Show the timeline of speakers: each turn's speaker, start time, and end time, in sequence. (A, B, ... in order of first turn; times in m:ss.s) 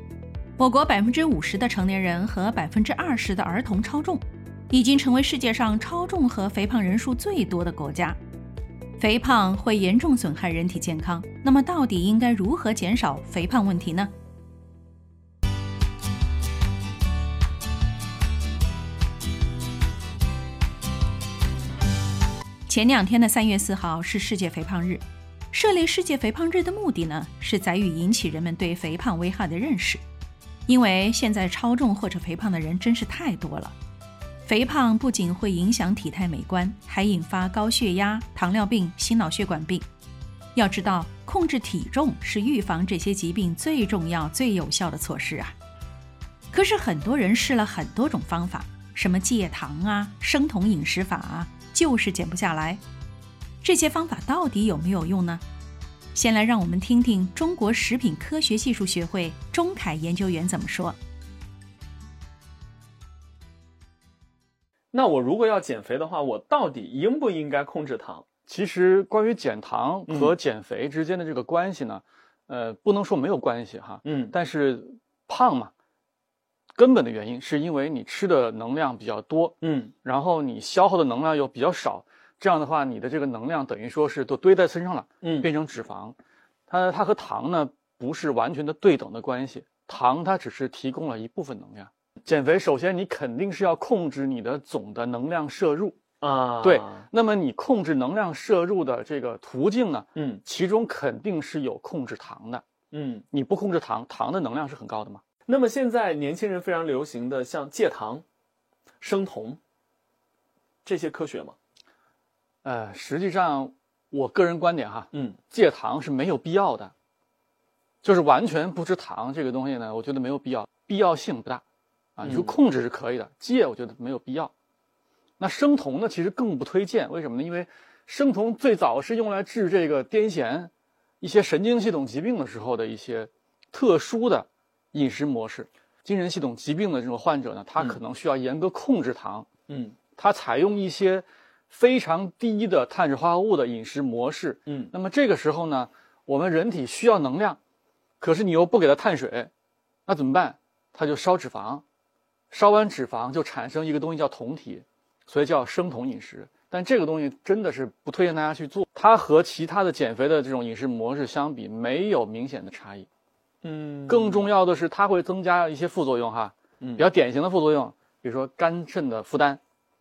0:00.6-0:08.2 A
0:09.0-0:14.1 A
0:22.7-0:30.0 A
0:30.7-0:33.8 A
0:34.4-0:39.8 A
0:40.5-0:45.5 A
0:46.5-0:52.8 A
0:53.6-0:55.4 A
0:56.1-1:01.0 A
1:04.9-1:08.2 B
1:08.4-1:15.7 C
1:10.1-1:10.3 B
1:14.0-1:14.3 B
1:16.8-1:26.2 C
1:19.6-1:19.9 B
1:25.2-1:25.5 B
1:26.7-1:36.0 C
1:36.2-1:37.0 B
1:36.6-1:42.6 C
1:40.1-1:40.4 B
1:42.9-1:43.2 B
1:43.3-1:45.2 C
1:45.5-1:48.2 B
1:49.0-1:49.6 B
1:50.8-1:51.6 B
1:52.6-1:56.9 C
1:55.1-1:55.4 B
1:58.0-2:01.6 C
2:02.2-2:04.5 C
2:02.2-2:02.5 B
2:05.4-2:19.5 C
2:19.7-2:20.0 B
2:20.1-2:27.6 C
2:28.2-2:29.5 C
2:30.1-2:31.8 C
2:32.5-2:43.1 C
2:43.6-2:44.5 B
2:44.1-2:49.6 C